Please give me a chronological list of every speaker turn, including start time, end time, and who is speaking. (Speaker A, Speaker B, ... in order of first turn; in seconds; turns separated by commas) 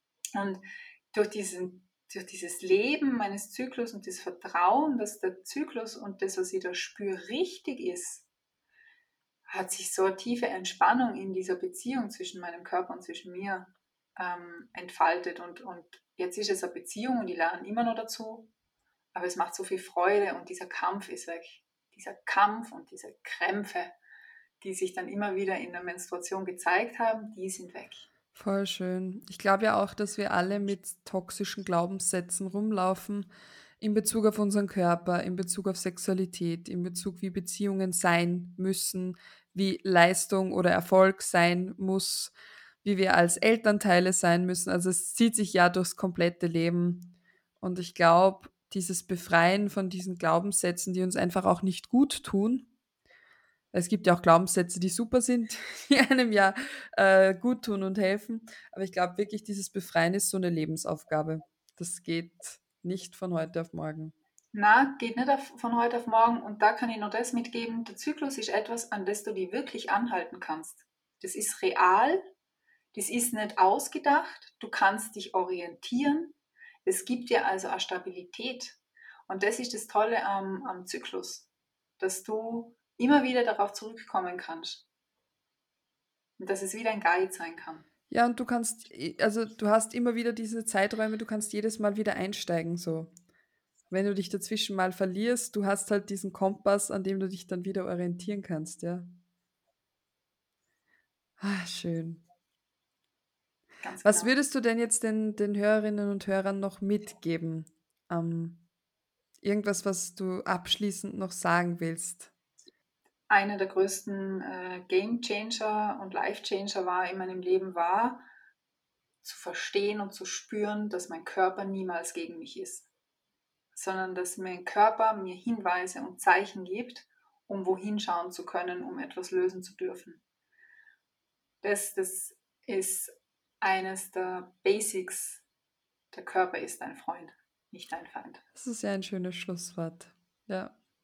Speaker A: 0.3-0.6, Speaker A: 1.1-8.3, Speaker A: 9.5-18.5, Speaker A: 19.1-23.9, Speaker A: 24.6-28.1, Speaker B: 28.3-52.7, Speaker B: 53.7-64.1, Speaker A: 64.5-72.2, Speaker A: 72.9-81.5, Speaker A: 82.0-84.8, Speaker A: 86.4-87.8, Speaker B: 88.1-93.1, Speaker B: 93.9-99.1, Speaker B: 101.4-102.2, Speaker A: 103.8-104.3, Speaker B: 104.0-108.6, Speaker B: 109.4-112.3, Speaker A: 113.3-118.2, Speaker A: 119.2-122.9, Speaker A: 123.7-130.2, Speaker A: 131.6-135.4, Speaker A: 136.1-138.4, Speaker B: 138.6-140.7